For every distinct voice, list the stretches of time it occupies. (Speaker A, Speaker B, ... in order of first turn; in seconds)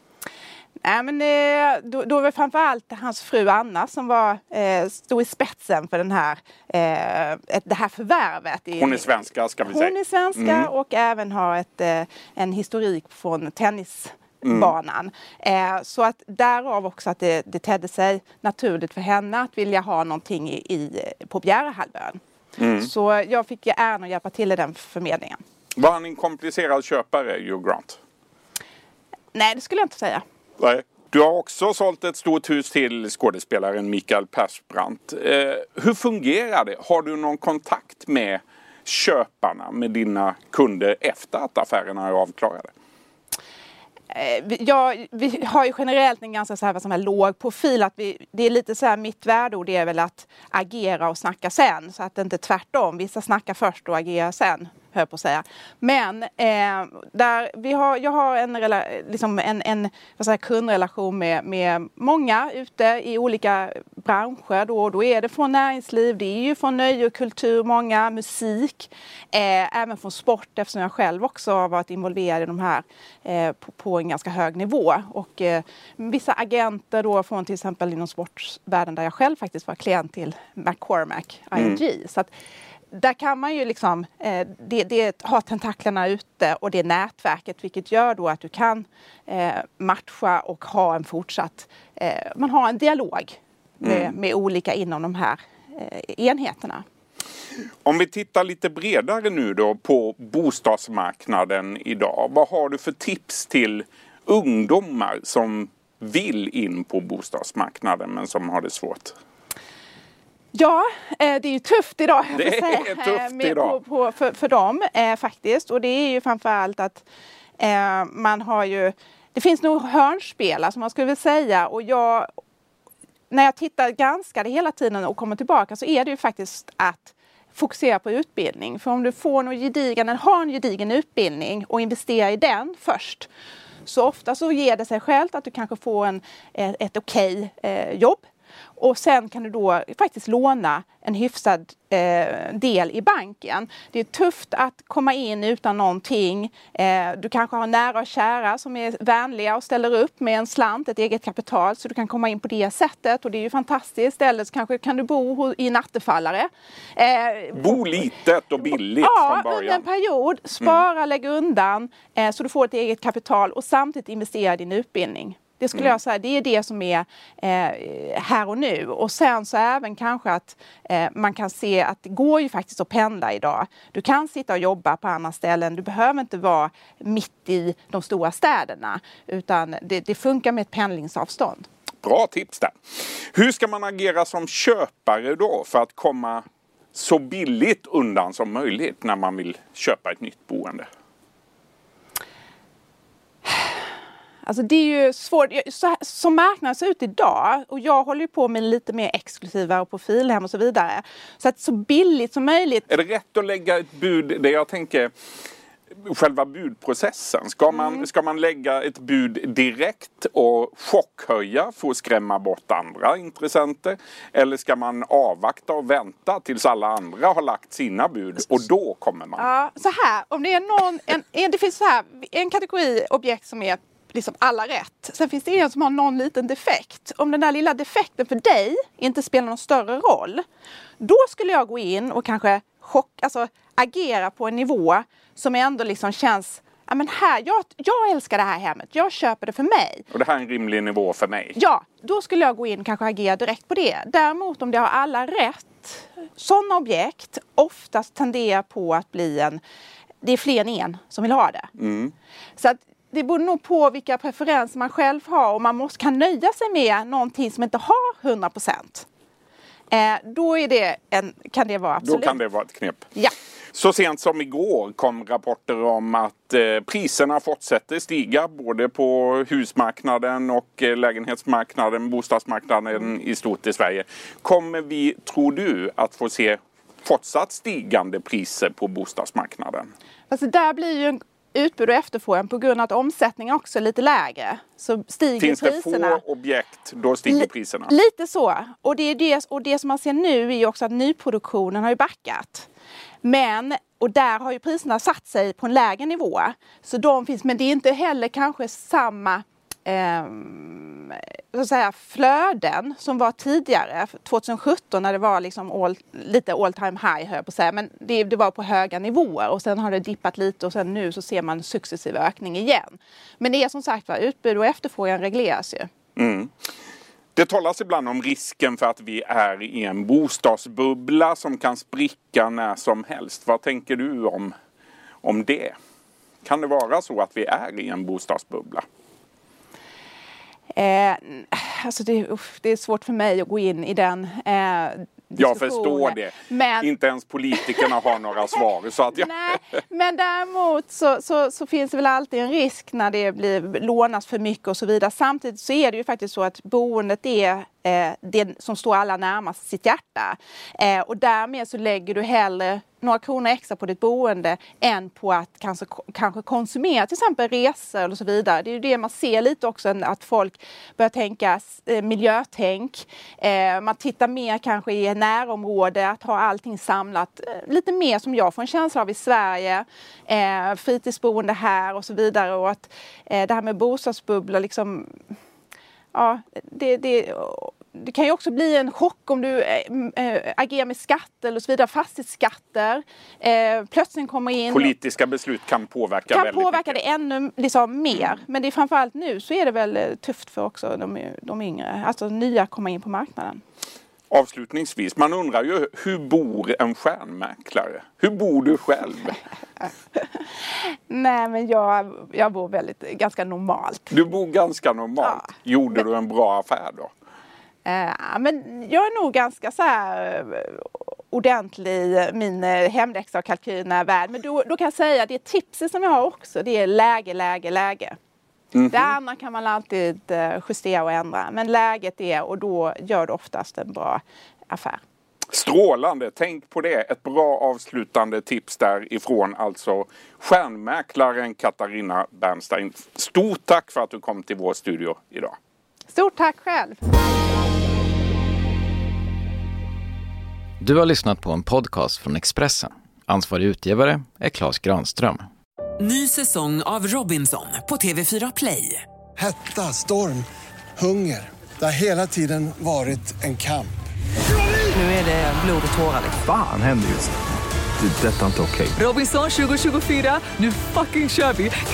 Speaker A: 0.8-22.2, 22.8-25.4, 29.3-30.2, 44.1-82.3, 82.9-96.8, 110.5-117.0, 117.6-122.3, 123.3-133.3, 133.8-138.2, 138.8-157.8, 158.7-181.6, 193.4-193.8, 194.4-202.9, 219.4-230.4, 231.0-240.1, 241.5-249.6, 250.2-251.7, 252.6-259.1, 259.9-262.4, 280.3-286.2, 287.3-292.7, 293.2-315.9, 330.7-336.9, 337.5-337.9, 339.1-375.1, 376.1-384.9, 386.3-393.6, 400.2-404.1, 405.2-405.5, 407.8-418.2, 418.8-425.0, 436.1-437.0
Speaker B: 8.8-10.7, 14.4-14.7, 22.6-22.9, 25.8-28.0, 30.6-42.7, 93.8-94.1, 97.8-109.1, 112.3-113.8, 157.5-159.8, 182.0-182.7, 183.3-190.9, 202.9-205.1, 206.0-219.4, 240.1-241.6, 251.8-252.1, 262.0-263.0, 263.7-279.9, 285.4-287.9, 316.2-316.5, 317.4-324.5, 325.2-325.8, 326.4-328.8, 335.4-339.3, 384.7-387.0, 394.3-399.4, 404.1-407.1, 425.5-435.6
Speaker C: 440.8-445.5
Speaker D: 446.0-449.0, 454.9-456.4, 459.0-461.7
Speaker E: 449.4-450.4, 451.0-453.9
Speaker F: 456.4-457.4, 458.0-459.0